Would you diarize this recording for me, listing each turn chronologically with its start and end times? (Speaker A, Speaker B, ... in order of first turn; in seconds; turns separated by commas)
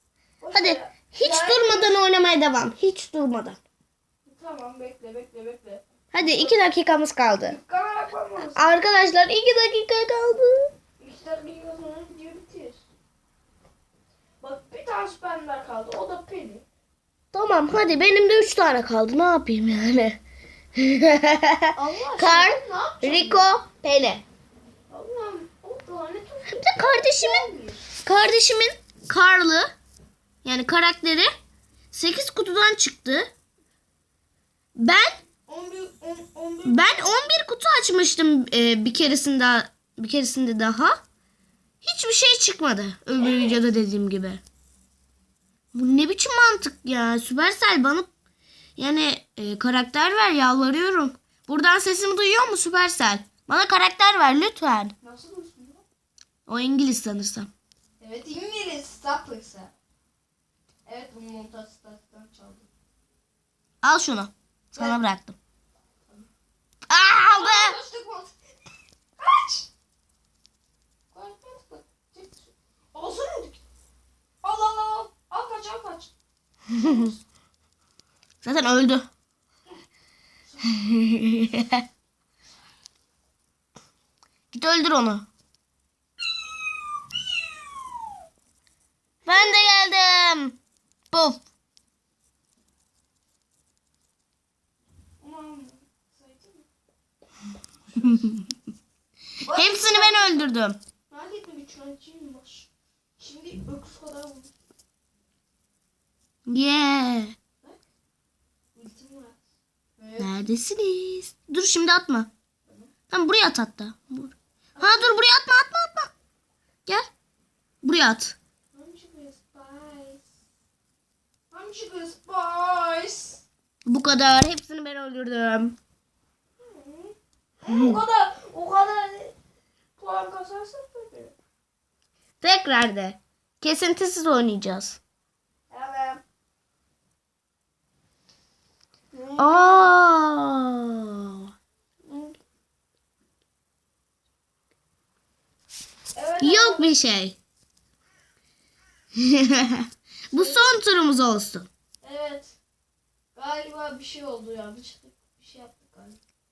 Speaker A: 0.4-2.0, Speaker B: 0.5-3.6, Speaker A: 4.2-6.6, Speaker B: 6.1-7.6, Speaker A: 7.5-8.8, Speaker B: 8.5-10.7, Speaker A: 11.0-12.8, Speaker A: 14.4-16.6, Speaker B: 17.3-20.2, Speaker B: 20.8-24.2, Speaker A: 21.7-23.5, Speaker A: 24.9-27.9, Speaker B: 26.5-27.5, Speaker B: 28.0-29.7, Speaker B: 30.4-31.3, Speaker B: 31.9-33.3, Speaker B: 34.8-35.2, Speaker A: 35.5-37.2, Speaker B: 36.6-41.0, Speaker B: 41.8-44.4, Speaker A: 43.2-43.6, Speaker B: 45.7-48.1, Speaker B: 48.8-55.0, Speaker A: 55.0-55.8, Speaker B: 56.5-57.5, Speaker A: 58.0-59.7, Speaker A: 60.9-62.7, Speaker B: 63.8-65.4, Speaker A: 64.8-65.0, Speaker B: 66.9-67.8, Speaker A: 67.3-68.3, Speaker A: 69.2-69.7, Speaker A: 71.1-73.6, Speaker A: 74.4-76.1, Speaker A: 76.8-77.2, Speaker B: 78.4-79.1, Speaker A: 80.5-80.8, Speaker B: 80.6-81.8, Speaker B: 84.5-85.3, Speaker A: 89.2-89.6, Speaker B: 89.3-90.6, Speaker B: 91.1-91.4, Speaker A: 95.2-96.7, Speaker A: 99.5-100.5, Speaker B: 99.5-100.8, Speaker A: 101.1-104.5, Speaker B: 106.5-107.3, Speaker A: 108.8-109.4, Speaker A: 110.0-110.4, Speaker B: 110.2-112.3, Speaker B: 113.1-116.1, Speaker A: 114.8-115.2, Speaker B: 117.8-118.4, Speaker A: 118.7-120.2, Speaker A: 121.5-123.4, Speaker B: 123.9-125.8, Speaker A: 126.6-129.3, Speaker A: 130.0-131.3, Speaker B: 132.4-135.0, Speaker A: 135.7-136.2, Speaker A: 139.1-139.9, Speaker B: 139.4-141.4, Speaker A: 142.1-142.3, Speaker A: 146.2-146.9, Speaker B: 146.4-147.4, Speaker B: 149.2-151.7, Speaker A: 150.3-150.7, Speaker A: 152.0-152.6, Speaker A: 153.3-156.2